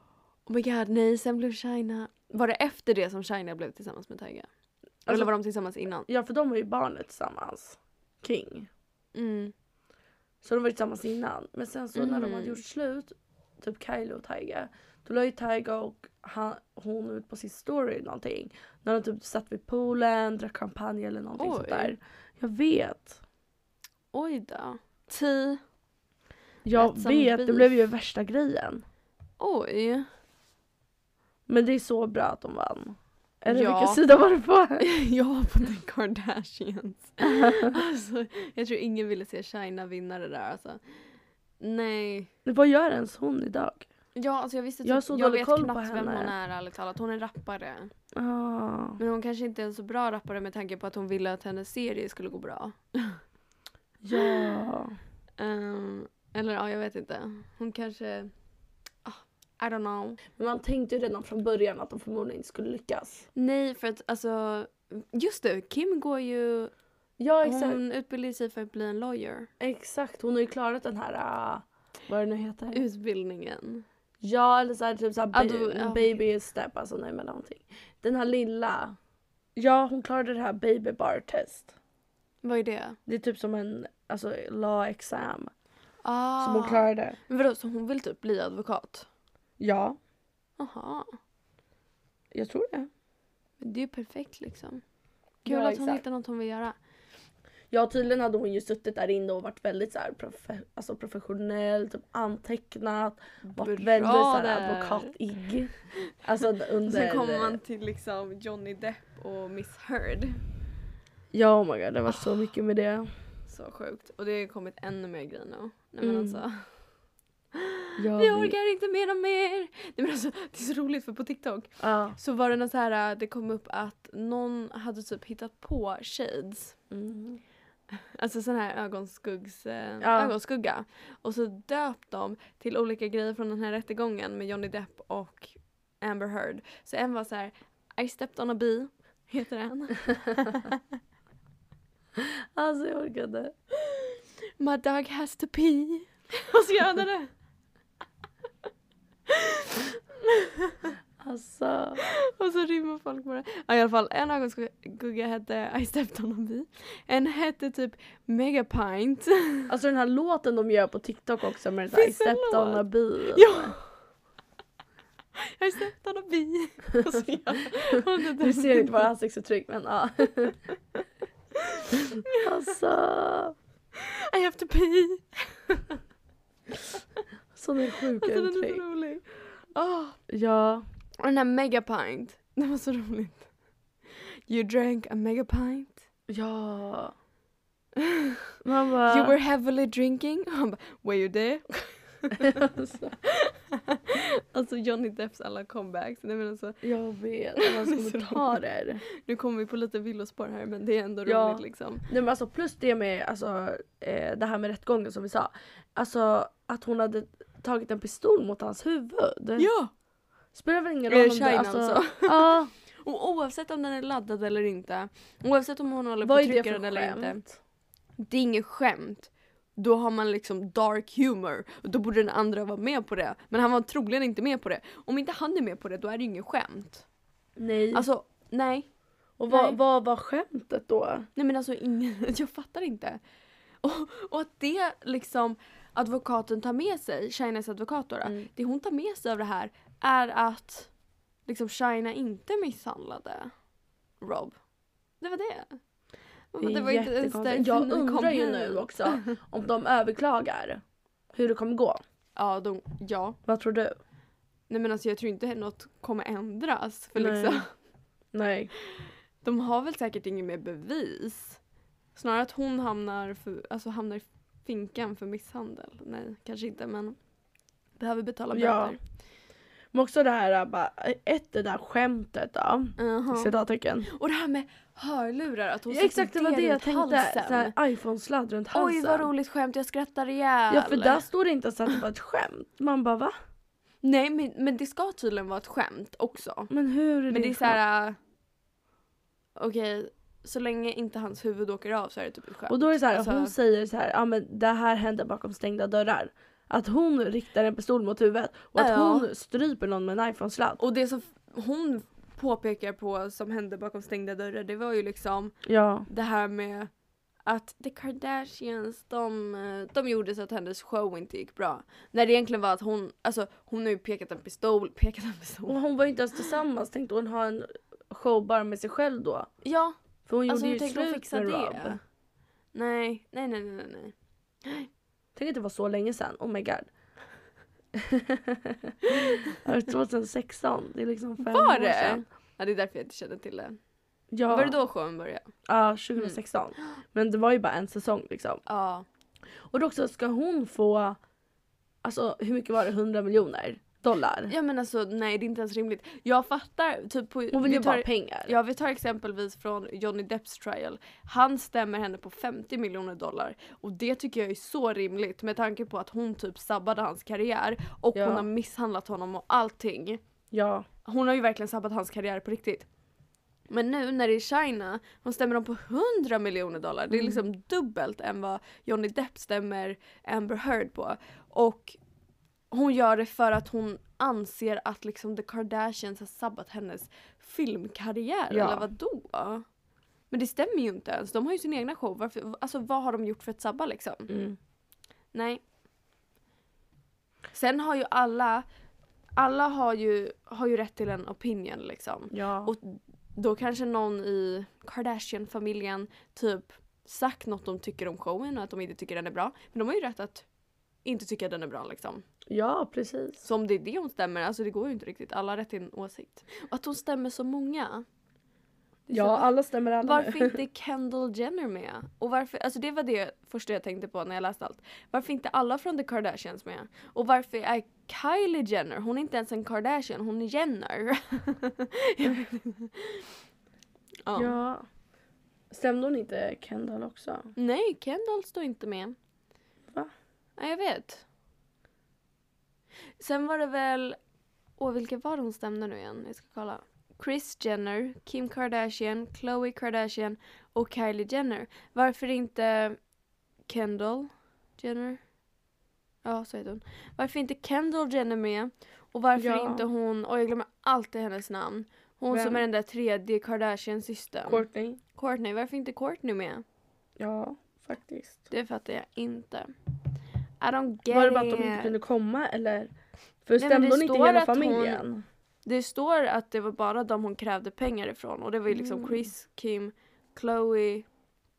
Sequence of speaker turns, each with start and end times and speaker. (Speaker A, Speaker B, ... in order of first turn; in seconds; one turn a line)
Speaker A: 0.5-4.5
Speaker A: 5.0-6.1
Speaker B: 6.1-8.7
Speaker A: 9.1-9.5
Speaker B: 10.4-23.2
Speaker A: 11.9-12.6
Speaker A: 21.4-21.9
Speaker A: 24.1-25.6
Speaker B: 26.6-28.8
Speaker A: 26.7-27.8
Speaker A: 29.4-30.1
Speaker B: 31.5-34.8
Speaker A: 33.5-34.0
Speaker A: 34.8-40.8
Speaker B: 37.3-37.7
Speaker A: 41.6-42.3
Speaker B: 42.4-43.9
Speaker A: 44.1-47.9
Speaker B: 44.8-46.3
Speaker B: 48.1-49.0
Speaker A: 49.0-53.2
Speaker B: 54.0-54.9
Speaker A: 54.2-54.4
Speaker A: 55.4-58.3
Speaker A: 59.0-60.2
Speaker B: 60.4-63.2
Speaker A: 63.3-66.7
Speaker B: 67.2-67.8
Speaker A: 67.4-69.5
Speaker B: 69.6-72.8
Speaker A: 72.7-73.8
Speaker B: 74.2-79.0
Speaker A: 75.3-76.1
Speaker B: 79.5-81.7
Speaker A: 82.4-83.0
Speaker B: 83.1-85.5
Speaker A: 86.0-89.1
Speaker B: 86.4-87.2
Speaker B: 89.6-90.0
Speaker A: 90.6-91.2
Speaker B: 92.3-92.9
Speaker A: 93.6-94.8
Speaker A: 95.4-96.8
Speaker B: 95.5-96.0
Speaker B: 97.7-107.6
Speaker A: 103.4-105.1
Speaker A: 106.8-110.4
Speaker B: 111.3-113.1
Speaker A: 113.5-116.7
Speaker B: 116.0-116.4
Speaker A: 117.5-126.8
Speaker B: 118.0-118.5
Speaker B: 121.8-122.2
Speaker B: 126.9-127.4
Speaker A: 127.9-140.8
Speaker B: 130.0-130.3
Speaker B: 142.2-143.5
Speaker A: 143.8-147.3
Speaker A: 149.3-150.9
Speaker B: 151.2-152.0
Speaker A: 152.0-159.7
Speaker B: 159.7-163.7
Speaker A: 161.9-163.9
Speaker A: 165.5-169.0
Speaker B: 168.4-170.6
Speaker A: 171.6-172.5
Speaker B: 172.3-173.5
Speaker A: 174.0-175.9
Speaker B: 177.5-178.8
Speaker A: 178.2-180.2
Speaker B: 180.3-180.8
Speaker A: 181.2-183.5
Speaker A: 184.2-186.0
Speaker B: 186.3-187.1
Speaker A: 188.0-188.3
Speaker B: 188.6-189.3
Speaker A: 189.1-192.6
Speaker B: 192.4-193.1
Speaker A: 193.2-196.8
Speaker B: 196.8-199.0
Speaker A: 197.6-198.6
Speaker A: 199.2-202.1
Speaker B: 201.2-209.7
Speaker A: 209.6-209.9
Speaker B: 210.5-212.7
Speaker A: 211.1-217.4
Speaker B: 216.2-217.6
Speaker A: 218.2-227.0
Speaker B: 227.6-228.1
Speaker A: 227.9-228.9
Speaker B: 229.4-231.3
Speaker A: 229.5-229.8
Speaker A: 231.3-233.2
Speaker A: 233.8-240.9
Speaker B: 238.2-238.5
Speaker A: 241.5-243.5
Speaker A: 244.2-244.6
Speaker A: 245.2-245.8
Speaker A: 246.5-249.3
Speaker B: 246.6-250.8
Speaker B: 251.3-252.0
Speaker A: 252.3-253.4
Speaker B: 253.4-253.9
Speaker A: 254.7-257.7
Speaker B: 257.2-257.6
Speaker B: 258.3-258.7
Speaker A: 259.4-261.6
Speaker A: 262.1-267.2
Speaker A: 268.0-269.0
Speaker B: 268.5-268.9
Speaker B: 269.9-274.1
Speaker A: 273.0-273.5
Speaker A: 274.1-277.7
Speaker B: 275.9-279.3
Speaker A: 278.7-281.2
Speaker B: 280.7-283.3
Speaker A: 284.0-286.7
Speaker B: 286.7-287.8
Speaker A: 287.3-288.2
Speaker A: 289.6-293.5
Speaker B: 292.7-300.8
Speaker A: 298.8-299.3
Speaker A: 300.8-305.6
Speaker B: 305.6-306.1
Speaker A: 306.1-306.9
Speaker A: 307.4-315.8
Speaker B: 315.7-319.5
Speaker A: 319.6-319.9
Speaker B: 320.3-322.0
Speaker A: 320.5-322.0
Speaker A: 322.7-324.9
Speaker B: 325.4-326.9
Speaker B: 327.9-332.2
Speaker A: 329.1-329.6
Speaker A: 331.4-333.8
Speaker B: 334.3-334.8
Speaker A: 334.5-335.5
Speaker B: 335.7-338.6
Speaker A: 338.6-339.1
Speaker B: 339.7-341.2
Speaker B: 342.0-344.5
Speaker A: 344.5-360.2
Speaker B: 347.5-348.5
Speaker B: 358.1-358.4
Speaker B: 360.5-360.9
Speaker A: 361.0-362.9
Speaker A: 363.7-372.0
Speaker B: 367.1-367.4
Speaker A: 372.7-379.6
Speaker B: 378.5-378.9
Speaker A: 380.3-384.3
Speaker B: 384.3-384.6
Speaker A: 385.3-385.6
Speaker A: 387.5-388.6
Speaker A: 389.4-400.4
Speaker B: 392.3-392.7
Speaker A: 401.0-402.2
Speaker B: 402.5-403.4
Speaker A: 403.4-408.0
Speaker A: 409.1-409.5
Speaker B: 409.1-410.6
Speaker A: 410.0-423.3
Speaker A: 424.2-424.5
Speaker B: 424.3-424.8
Speaker B: 425.7-427.5
Speaker A: 427.6-429.2
Speaker A: 430.6-431.2
Speaker A: 433.2-434.2
Speaker A: 434.8-443.0
Speaker A: 443.7-445.2
Speaker A: 446.2-454.6
Speaker B: 449.4-449.8
Speaker B: 452.3-452.6
Speaker B: 454.5-455.0
Speaker A: 455.1-456.6
Speaker B: 457.2-458.5
Speaker A: 458.5-459.7
Speaker A: 460.6-461.9
Speaker B: 461.1-462.9
Speaker B: 463.4-465.2
Speaker A: 463.6-465.0
Speaker A: 465.6-471.1
Speaker B: 468.7-469.2